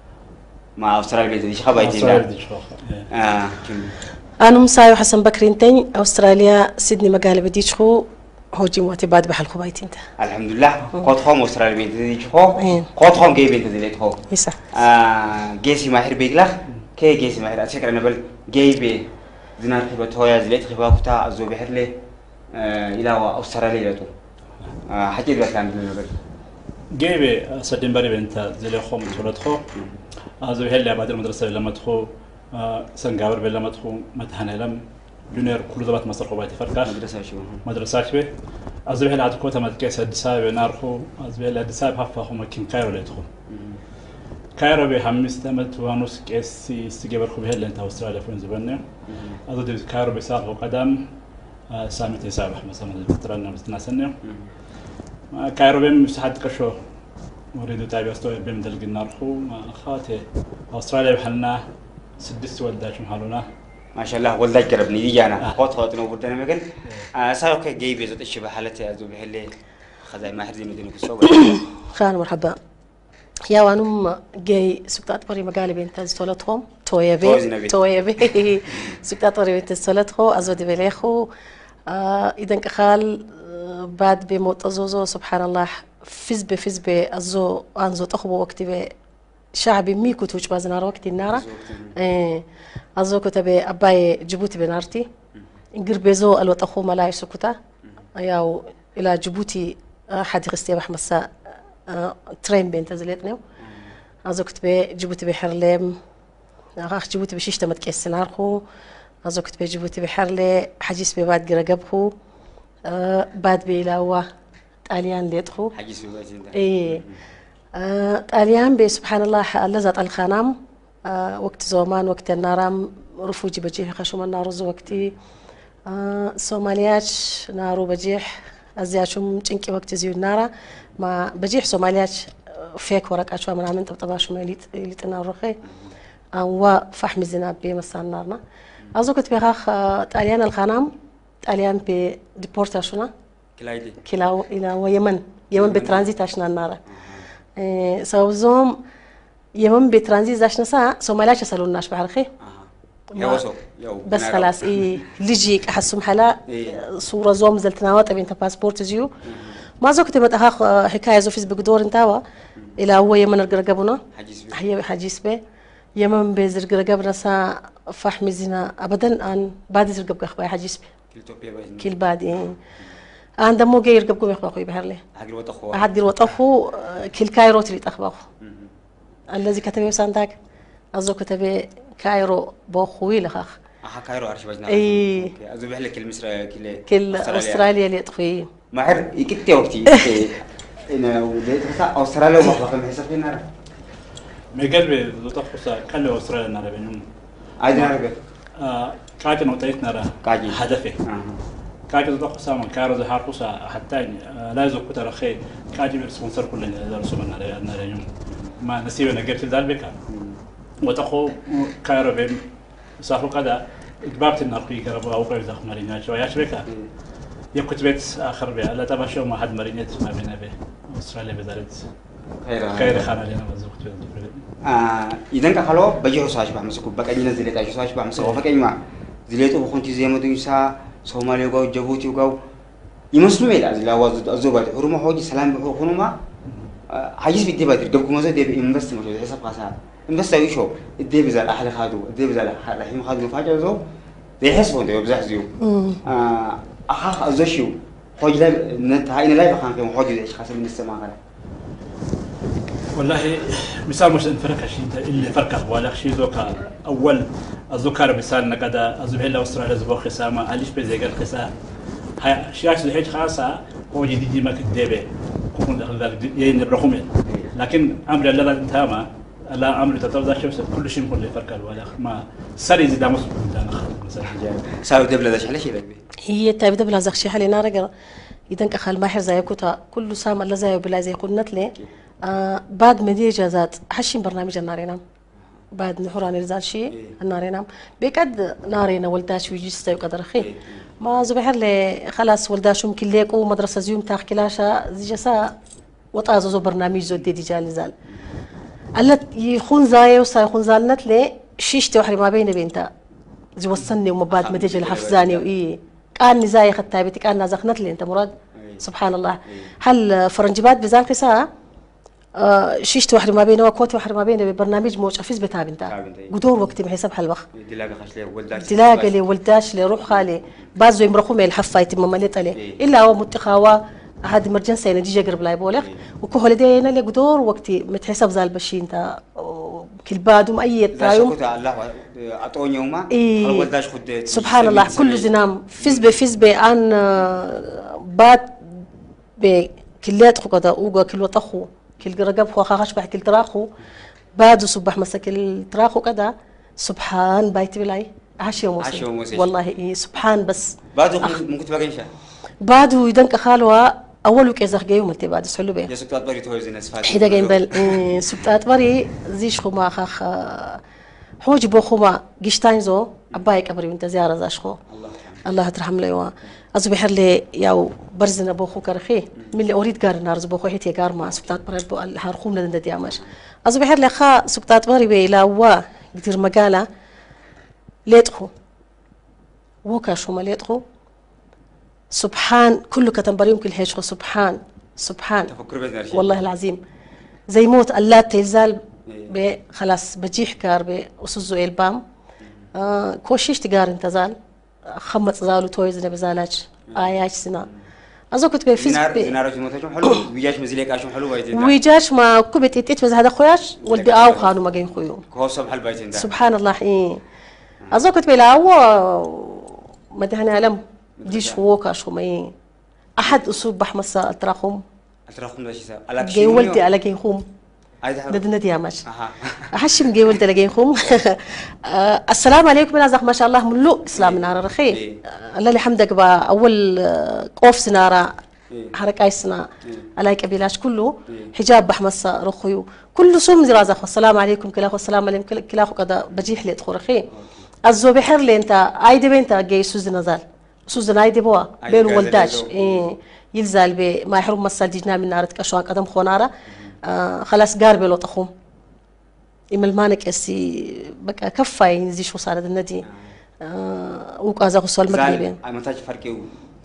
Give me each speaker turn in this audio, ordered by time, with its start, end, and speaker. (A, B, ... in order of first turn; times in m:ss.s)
0:00.8-0:02.2 A
0:01.8-0:03.1 B
0:03.1-0:04.0 A
0:04.4-0:10.0 C
0:10.2-0:14.2 A
0:12.6-0:12.9 C
0:14.3-0:14.6 C
0:14.7-0:22.0 A
0:22.5-0:24.1 A
0:24.9-0:26.1 A
0:27.0-0:29.6 B
0:30.4-0:37.0 B
0:36.8-0:37.6 A
0:37.6-0:38.3 B
0:38.9-0:43.3 B
0:43.5-0:43.8 A
0:44.6-0:48.8 B
0:49.1-0:49.4 A
0:49.5-0:51.1 B
0:51.7-0:54.2 B
0:55.3-0:56.8 B
0:57.5-1:01.6 B
1:02.2-1:03.5 B
1:04.0-1:09.5 A
1:10.0-1:11.6 A
1:11.2-1:12.6 C
1:13.5-1:21.3 C
1:17.2-1:17.7 A
1:21.9-1:28.9 C
1:29.5-1:31.4 C
1:31.3-1:32.0 A
1:32.0-1:32.4 C
1:33.0-1:35.1 C
1:35.8-1:37.6 C
1:38.2-1:41.3 C
1:41.9-1:43.4 C
1:43.6-1:43.9 A
1:44.2-1:46.0 C
1:46.8-1:48.6 C
1:49.2-1:52.1 C
1:52.9-1:54.3 C
1:54.9-1:55.7 C
1:55.7-1:57.2 A
1:56.5-1:57.0 C
1:57.7-2:05.1 C
2:05.9-2:15.6 C
2:16.4-2:18.4 C
2:18.9-2:20.9 C
2:21.4-2:23.1 C
2:23.6-2:24.0 A
2:24.0-2:26.8 C
2:25.6-2:26.1 A
2:26.9-2:27.2 A
2:27.6-2:28.8 C
2:29.6-2:32.3 C
2:32.4-2:35.0 A
2:33.2-2:33.4 C
2:34.1-2:39.1 C
2:36.5-2:36.8 A
2:39.2-2:39.6 A
2:39.8-2:42.2 C
2:42.8-2:44.0 C
2:44.1-2:44.6 A
2:44.5-2:45.4 C
2:46.0-2:50.9 C
2:51.1-2:51.9 A
2:51.8-2:52.6 C
2:53.4-2:55.0 C
2:55.2-2:55.9 A
2:55.7-2:58.3 C
2:58.4-2:58.7 A
2:59.3-3:00.4 C
3:01.0-3:03.6 C
3:03.8-3:07.7 A
3:04.7-3:05.3 C
3:06.9-3:08.5 C
3:08.7-3:13.4 A
3:14.5-3:17.0 B
3:17.6-3:18.2 A
3:18.6-3:21.0 B
3:20.2-3:21.4 A
3:21.9-3:30.0 B
3:30.1-3:30.4 A
3:30.8-3:32.4 B
3:33.0-3:36.7 B
3:37.5-3:41.8 B
3:42.4-3:43.1 A
3:42.7-3:44.4 B
3:44.6-3:52.4 A
3:48.2-3:48.4 B
3:53.1-3:56.2 A
3:56.9-4:03.8 A
4:04.4-4:11.2 A
4:05.6-4:06.0 C
4:13.0-4:21.6 B
4:22.2-4:34.4 B
4:27.2-4:27.5 A
4:34.2-4:36.0 A
4:36.3-4:37.9 C
4:38.5-4:45.0 C
4:45.7-4:50.5 C
4:46.9-4:47.2 A
4:50.4-4:50.9 A
4:51.0-4:55.5 C
4:56.1-4:57.9 C
4:59.0-5:02.9 C
5:03.6-5:11.5 C
5:04.3-5:05.4 A
5:08.6-5:08.8 A
5:12.4-5:17.5 C
5:15.9-5:16.4 A
5:17.6-5:19.2 A
5:18.6-5:31.3 C
5:31.0-5:35.3 A
5:33.1-5:33.7 C
5:34.3-5:38.8 C
5:35.8-5:36.1 A
5:39.4-5:43.7 C
5:44.4-5:51.4 C
5:48.8-5:49.5 A
5:50.9-5:52.1 A
5:52.6-5:55.9 C
5:55.9-5:58.0 A
5:57.0-6:00.8 C
6:01.4-6:04.8 C
6:04.9-6:05.4 A
6:05.4-6:16.9 C
6:18.1-6:18.5 C
6:19.8-6:20.8 C
6:22.1-6:25.5 C
6:25.5-6:26.4 A
6:26.1-6:26.8 C
6:27.5-6:32.0 C
6:32.8-6:34.4 C
6:34.9-6:37.7 C
6:38.3-6:39.3 C
6:38.8-6:41.8 A
6:41.5-6:45.2 C
6:43.8-6:44.7 A
6:45.3-6:46.3 A
6:46.1-6:47.2 C
6:47.9-6:52.5 C
6:51.2-6:51.6 A
6:53.2-6:54.8 C
6:55.3-6:56.8 A
6:56.2-6:57.4 C
6:58.0-6:58.4 A
6:58.3-6:59.0 C
6:59.1-6:59.7 A
6:59.7-7:08.3 C
7:04.2-7:05.2 A
7:08.9-7:17.3 C
7:17.3-7:17.7 A
7:17.8-7:26.5 C
7:21.8-7:23.1 A
7:27.0-7:28.5 C
7:29.7-7:33.1 C
7:33.1-7:33.3 A
7:33.6-7:35.6 C
7:35.1-7:36.6 A